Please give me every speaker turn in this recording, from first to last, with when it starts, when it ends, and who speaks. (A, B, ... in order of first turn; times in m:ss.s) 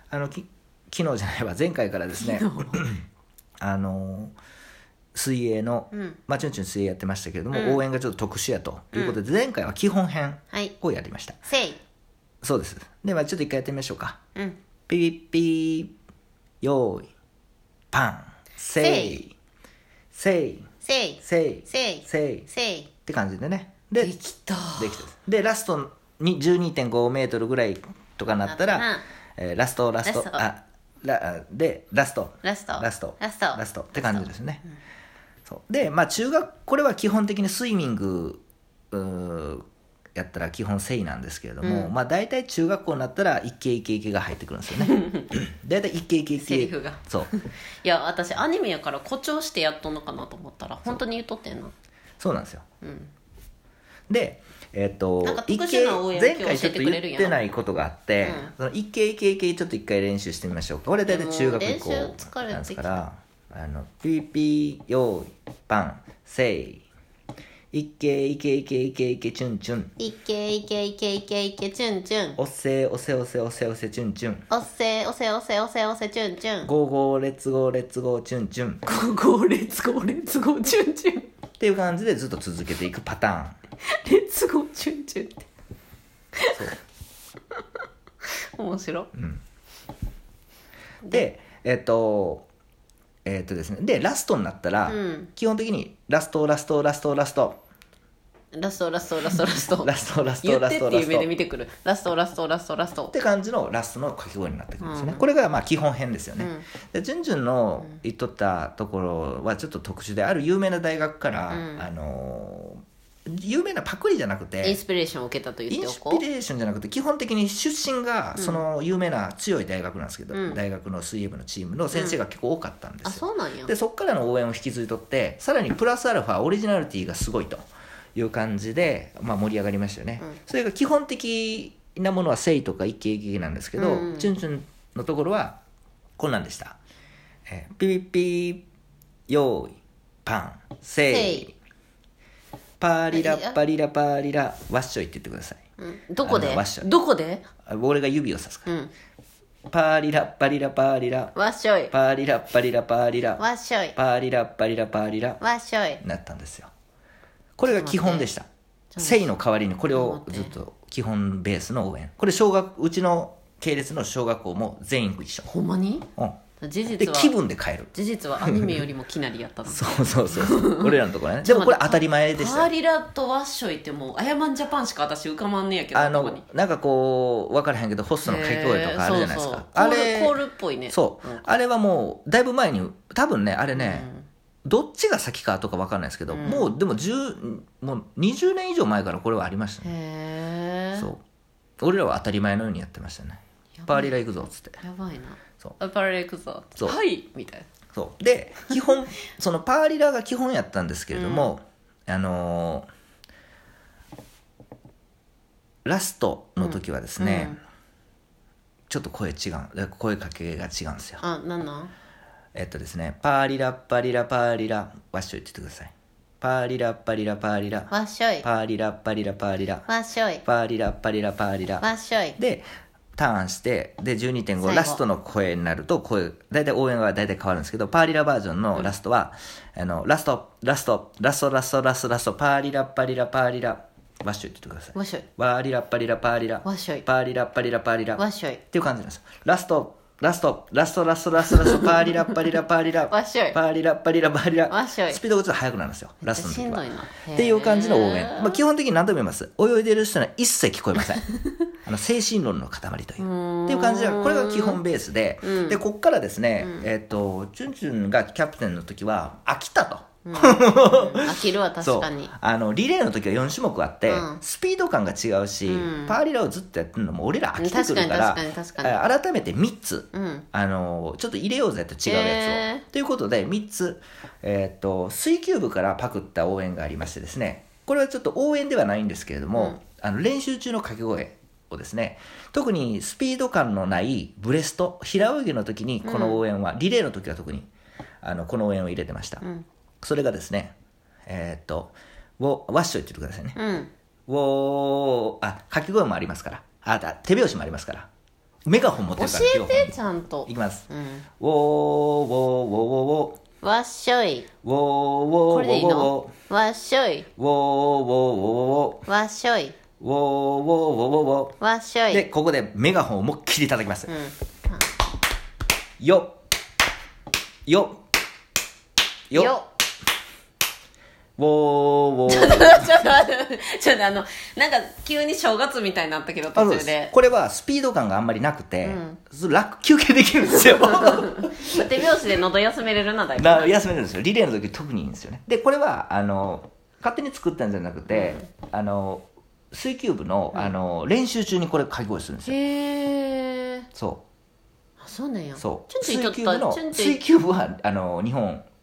0:00.1-0:03.0 A
0:02.2-0:02.9 B
0:03.6-0:04.4 A
0:05.2-0:11.4 A
0:05.9-0:06.2 B
0:07.5-0:07.8 B
0:08.9-0:09.2 B
0:11.5-0:11.8 B
0:12.4-0:14.2 A
0:14.9-0:15.9 A
0:16.6-0:17.1 A
0:17.9-0:19.4 A
0:18.8-0:19.2 B
0:20.1-0:20.7 A
0:20.8-0:22.9 B
0:21.2-0:22.5 A
0:23.0-0:24.1 A
0:24.0-0:25.0 B
0:24.8-0:34.6 A
0:28.5-0:29.0 B
0:30.0-0:30.4 B
0:32.4-0:34.3 B
0:35.5-0:39.6 A
0:40.2-0:47.3 A
0:41.6-0:41.9 B
0:44.8-0:45.3 B
0:46.4-0:51.7 B
0:52.2-0:52.6 A
0:52.8-0:53.1 B
0:54.1-1:06.8 A
0:55.2-0:57.4 B
0:58.2-0:58.5 B
1:01.0-1:03.0 B
1:07.7-1:09.9 A
1:10.0-1:12.4 B
1:12.4-1:14.5 A
1:14.5-1:16.7 B
1:16.6-1:18.8 A
1:18.9-1:21.3 B
1:21.6-1:23.6 A
1:23.9-1:25.5 B
1:26.4-1:26.7 B
1:26.5-1:26.8 A
1:28.3-1:29.1 B
1:29.1-1:29.4 A
1:31.1-1:32.4 A
1:33.2-1:37.6 A
1:34.9-1:35.3 B
1:38.5-1:43.1 B
1:39.3-1:41.3 A
1:43.1-1:54.8 A
1:44.8-1:45.2 B
1:46.4-1:46.7 B
1:51.5-1:51.9 B
1:54.6-1:56.2 B
1:55.7-2:15.6 A
1:58.4-1:58.6 B
2:00.3-2:00.6 B
2:01.9-2:02.2 B
2:03.0-2:03.7 B
2:13.8-2:14.3 B
2:16.2-2:16.8 A
2:17.5-2:18.6 A
2:19.3-2:21.6 A
2:21.1-2:21.5 B
2:22.8-2:25.6 A
2:23.1-2:23.6 B
2:25.8-2:27.4 B
2:26.2-2:26.9 A
2:27.7-2:28.7 A
2:28.7-2:28.9 B
2:29.7-2:31.3 A
2:31.4-2:31.9 B
2:31.9-2:33.4 A
2:33.4-2:34.0 B
2:34.0-2:35.4 A
2:35.4-2:36.0 B
2:36.0-2:36.7 A
2:37.6-2:38.5 A
2:37.7-2:38.3 B
2:38.9-2:39.3 B
2:39.0-2:45.5 A
2:39.9-2:40.6 B
2:45.5-2:46.1 B
2:46.6-2:47.3 B
2:47.0-2:48.8 A
2:47.9-2:56.4 B
2:49.7-2:52.7 A
2:55.9-3:04.1 A
2:58.2-3:01.4 B
3:03.7-3:04.3 B
3:04.6-3:09.9 A
3:06.3-3:06.7 B
3:09.8-3:11.1 B
3:11.0-3:11.2 A
3:11.8-3:14.8 A
3:13.8-3:14.2 B
3:14.8-3:17.7 B
3:17.9-3:22.9 A
3:21.1-3:21.6 B
3:25.8-3:27.6 A
3:26.6-3:27.6 B
3:28.9-3:31.2 A
3:31.2-3:31.9 B
3:32.6-3:39.9 A
3:37.9-3:38.5 B
3:39.9-3:40.4 B
3:40.4-3:42.7 A
3:41.8-3:42.4 B
3:43.2-4:11.3 A
3:44.6-3:45.0 B
3:54.9-3:55.3 B
3:56.6-3:57.1 B
3:58.2-3:58.6 B
4:03.1-4:03.6 B
4:04.7-4:05.2 B
4:06.2-4:08.6 B
4:11.8-4:47.7 A
4:13.2-4:14.8 B
4:15.4-4:15.8 B
4:16.6-4:16.9 B
4:20.3-4:22.3 B
4:24.1-4:24.4 B
4:25.7-4:26.2 B
4:27.6-4:29.0 B
4:30.1-4:30.5 B
4:32.1-4:32.8 B
4:46.0-4:46.4 B
4:48.2-4:49.4 A
4:50.0-4:50.8 A
4:51.3-4:53.6 A
4:53.6-4:53.9 B
4:54.3-4:58.1 A
4:58.7-5:00.0 A
4:59.2-5:01.2 B
5:00.5-5:00.9 A
5:01.4-5:03.4 A
5:03.6-5:04.5 B
5:04.6-5:06.3 A
5:05.5-5:07.3 B
5:07.4-5:09.1 A
5:09.1-5:09.8 B
5:10.0-5:11.6 A
5:11.6-5:12.2 B
5:12.1-5:14.1 A
5:14.1-5:14.9 B
5:16.0-5:16.4 A
5:17.7-5:18.0 A
5:19.3-5:19.7 B
5:21.4-5:22.9 A
5:22.3-5:27.1 B
5:26.5-5:32.2 A
5:28.8-5:29.2 B
5:30.6-5:33.7 B
5:33.4-5:42.6 A
5:38.1-5:38.4 B
5:42.4-5:43.9 B
5:43.9-5:44.2 A
5:45.0-5:47.2 B
5:45.6-5:48.7 A